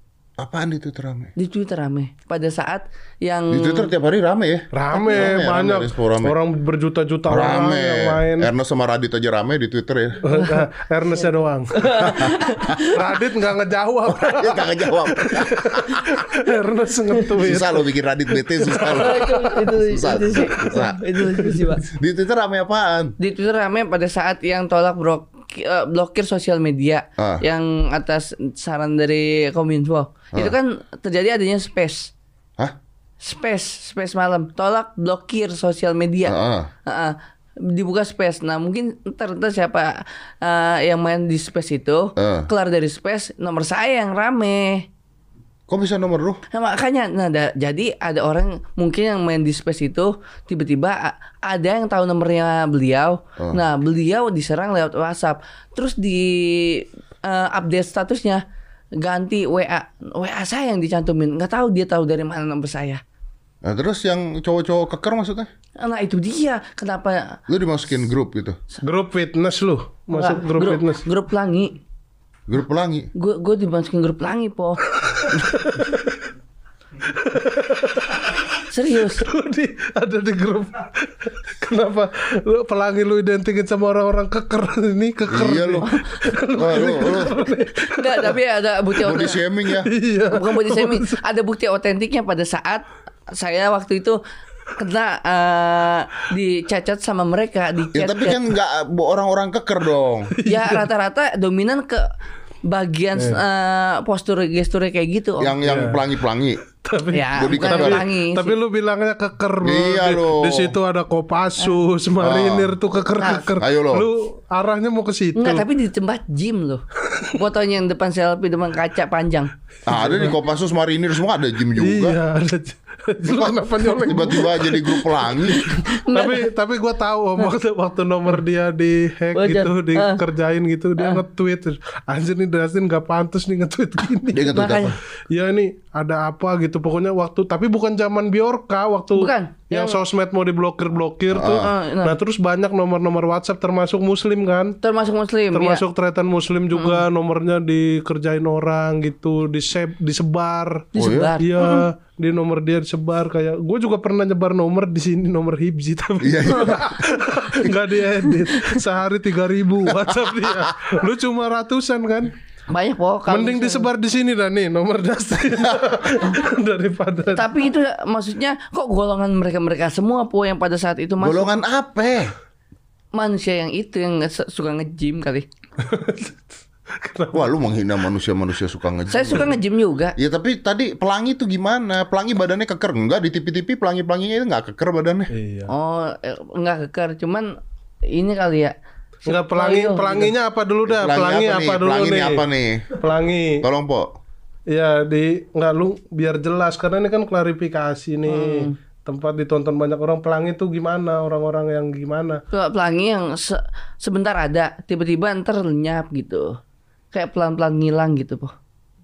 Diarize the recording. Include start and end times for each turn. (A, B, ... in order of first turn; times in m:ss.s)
0:00.4-0:01.3 A
0:01.4-0:03.9 B
0:03.5-0:06.4 A
0:04.7-0:08.5 C
0:07.3-0:10.2 A
0:10.2-0:12.1 C
0:11.8-0:13.0 B
0:12.0-0:12.8 A
0:12.8-0:17.9 C
0:14.0-0:16.1 A
0:17.4-0:21.1 A
0:18.6-0:19.7 C
0:18.9-0:21.8 B
0:21.2-0:21.8 C
0:21.9-0:23.1 A
0:23.2-0:32.1 B
0:27.2-0:27.4 A
0:33.2-0:44.9 B
0:36.2-0:36.7 A
0:42.2-0:42.5 A
0:45.7-0:46.4 A
0:46.5-0:58.4 B
0:59.0-1:03.0 B
1:03.6-1:05.5 A
1:05.8-1:07.4 B
1:07.5-1:08.6 A
1:08.8-1:11.0 C
1:10.1-1:11.8 B
1:12.5-1:13.1 A
1:13.1-1:14.8 B
1:15.1-1:16.1 C
1:17.2-1:18.4 C
1:18.7-1:19.2 B
1:19.0-1:28.4 C
1:25.3-1:25.9 A
1:25.9-1:27.2 B
1:26.5-1:27.4 A
1:27.8-1:29.4 B
1:29.0-1:29.9 A
1:29.6-1:31.2 C
1:30.3-1:34.2 B
1:34.8-1:38.4 B
1:37.9-1:40.3 A
1:40.4-1:40.9 C
1:40.4-1:42.0 B
1:42.6-1:45.6 B
1:43.1-1:43.4 C
1:45.4-1:46.6 A
1:45.6-1:46.1 C
1:46.8-1:55.6 C
1:47.1-1:48.6 B
1:47.3-1:48.0 A
1:49.6-1:50.7 A
1:52.2-1:52.7 A
1:53.2-1:53.5 B
1:53.6-1:54.1 A
1:55.4-1:59.5 B
1:59.8-2:02.2 A
1:59.9-2:00.4 C
2:01.8-2:14.6 C
2:03.2-2:05.8 A
2:05.6-2:06.4 B
2:09.3-2:10.2 B
2:14.3-2:15.0 A
2:14.5-2:15.0 B
2:15.3-2:24.8 C
2:19.2-2:20.0 B
2:21.3-2:21.7 A
2:21.4-2:22.2 B
2:24.8-2:25.8 B
2:25.5-2:42.3 C
2:26.7-2:27.0 B
2:30.9-2:31.8 B
2:31.0-2:31.3 A
2:36.2-2:36.9 A
2:36.5-2:37.0 B
2:38.5-2:38.8 B
2:40.0-2:40.7 A
2:42.7-2:43.9 B
2:43.3-2:47.5 C
2:45.5-2:45.8 A
2:47.3-2:51.5 B
2:51.2-2:52.3 A
2:53.1-2:55.4 B
2:55.8-2:56.4 C
2:57.0-2:57.5 C
2:57.3-2:59.5 A
2:59.1-3:00.1 B
3:00.2-3:05.3 A
3:05.3-3:05.7 C
3:05.7-3:08.7 B
3:09.3-3:12.4 C
3:09.3-3:10.3 B
3:10.8-3:12.9 A
3:13.0-3:13.6 C
3:13.6-3:14.1 A
3:14.7-3:22.4 C
3:18.3-3:18.8 B
3:22.5-3:26.6 B
3:27.1-3:28.5 B